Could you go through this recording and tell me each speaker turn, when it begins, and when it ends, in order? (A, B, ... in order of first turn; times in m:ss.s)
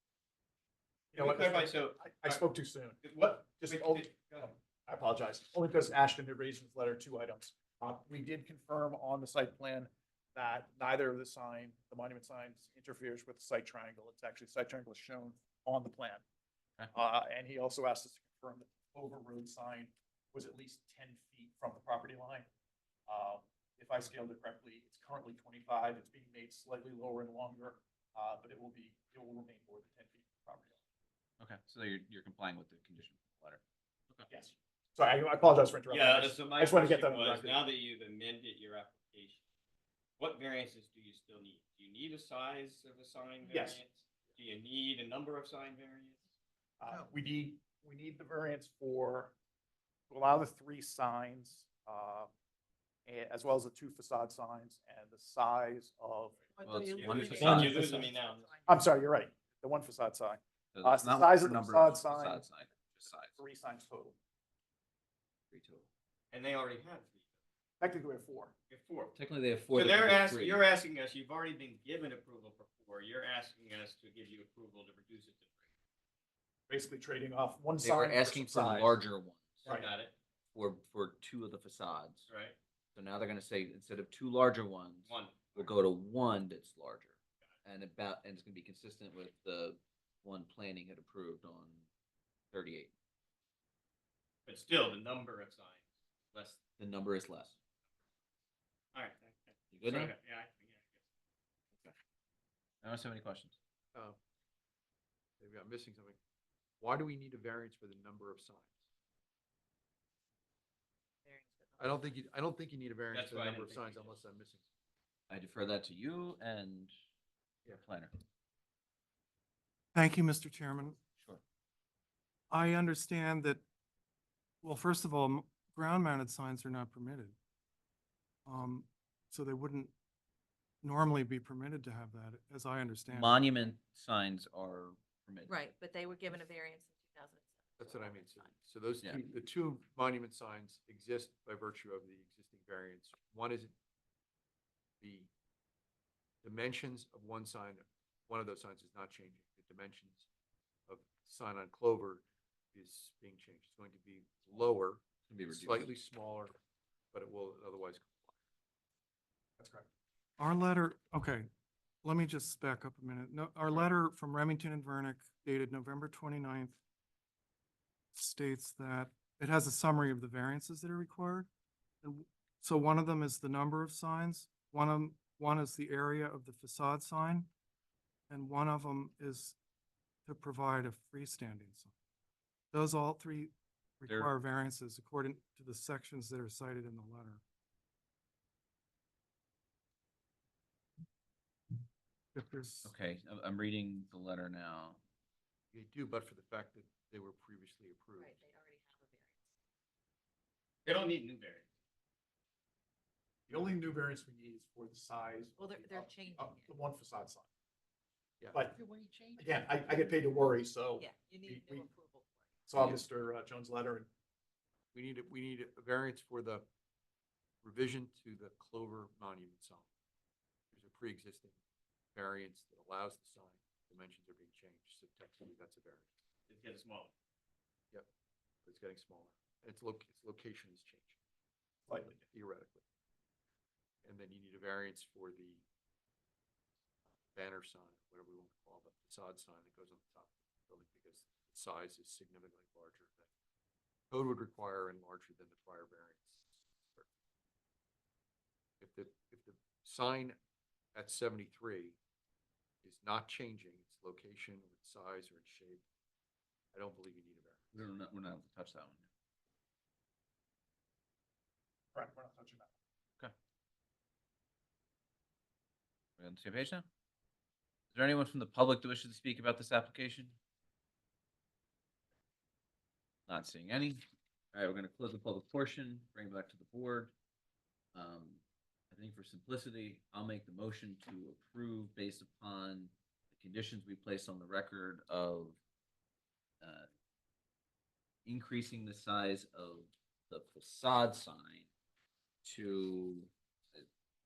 0:01.1-0:16.2 A
0:01.2-0:02.4 B
0:03.0-0:04.5 B
0:16.9-0:22.5 A
0:23.1-0:30.8 A
0:31.4-0:34.3 C
0:34.3-0:37.7 A
0:35.9-0:39.4 B
0:40.2-0:46.2 B
0:43.4-0:43.8 A
0:46.8-0:49.3 A
0:50.1-0:52.3 A
0:53.1-0:56.4 A
0:56.6-0:58.1 D
0:56.6-0:58.0 C
0:56.9-0:58.6 B
0:57.2-0:58.1 A
0:58.7-1:02.4 A
1:00.7-1:03.4 C
1:03.4-1:04.2 A
1:05.5-1:05.9 C
1:06.3-1:07.2 B
1:07.8-1:08.5 A
1:08.7-1:09.1 B
1:09.1-1:10.6 C
1:09.7-1:15.5 B
1:16.7-1:19.0 A
1:17.8-1:19.7 C
1:19.6-1:19.9 A
1:19.6-1:20.2 B
1:20.5-1:22.3 C
1:22.3-1:22.6 B
1:23.0-1:31.9 C
1:25.1-1:25.7 B
1:32.5-1:32.9 C
1:34.5-1:36.6 B
1:36.8-1:37.6 C
1:38.9-1:41.0 B
1:39.7-1:40.1 C
1:42.8-1:43.6 C
1:45.4-1:46.2 E
1:46.8-1:48.8 E
1:51.3-1:52.1 D
1:51.8-1:54.7 E
1:53.1-1:54.2 B
1:55.3-1:56.9 C
1:57.8-1:58.1 C
2:00.0-2:01.0 F
2:02.5-2:03.6 F
2:04.6-2:07.4 F
2:08.5-2:09.9 F
2:10.8-2:13.4 F
2:13.1-2:15.6 C
2:15.5-2:18.5 D
2:17.8-2:23.7 E
2:25.0-2:25.3 E
2:26.4-2:30.3 E
2:30.9-2:36.6 E
2:35.3-2:35.9 C
2:37.1-2:38.4 E
2:39.6-2:39.9 A
2:40.4-2:41.5 F
2:42.0-2:46.8 F
2:48.1-2:51.5 F
2:52.0-2:57.5 F
2:58.3-2:59.6 F
3:00.3-3:01.9 F
3:02.7-3:07.4 F
3:04.1-3:04.3 C
3:12.4-3:12.9 F
3:12.8-3:15.0 C
3:15.7-3:18.4 E
3:18.2-3:19.5 D
3:20.9-3:21.7 B
3:23.5-3:27.5 A
3:25.6-3:26.7 D
3:28.4-3:29.4 E
3:29.4-3:31.9 A
3:31.0-3:32.5 D
3:32.7-3:34.1 A
3:34.9-3:36.7 E
3:37.6-3:39.9 E
3:40.7-3:41.6 E
3:42.2-3:46.1 E
3:46.5-3:47.1 B
3:48.6-3:51.2 E
3:51.9-3:52.2 A
3:52.2-3:52.8 E
3:54.0-3:55.6 E
3:57.3-4:03.3 E
4:04.1-4:07.1 E
4:08.8-4:10.4 E
4:11.0-4:12.0 E
4:12.8-4:15.8 E
4:16.7-4:17.8 E
4:17.7-4:19.1 C
4:22.0-4:22.7 A
4:26.2-4:26.9 C
4:27.9-4:30.4 C
4:33.3-4:34.0 C
4:34.5-4:37.1 C
4:37.9-4:45.6 C
4:46.6-4:46.9 C
4:48.3-4:51.7 C
4:52.4-4:53.9 C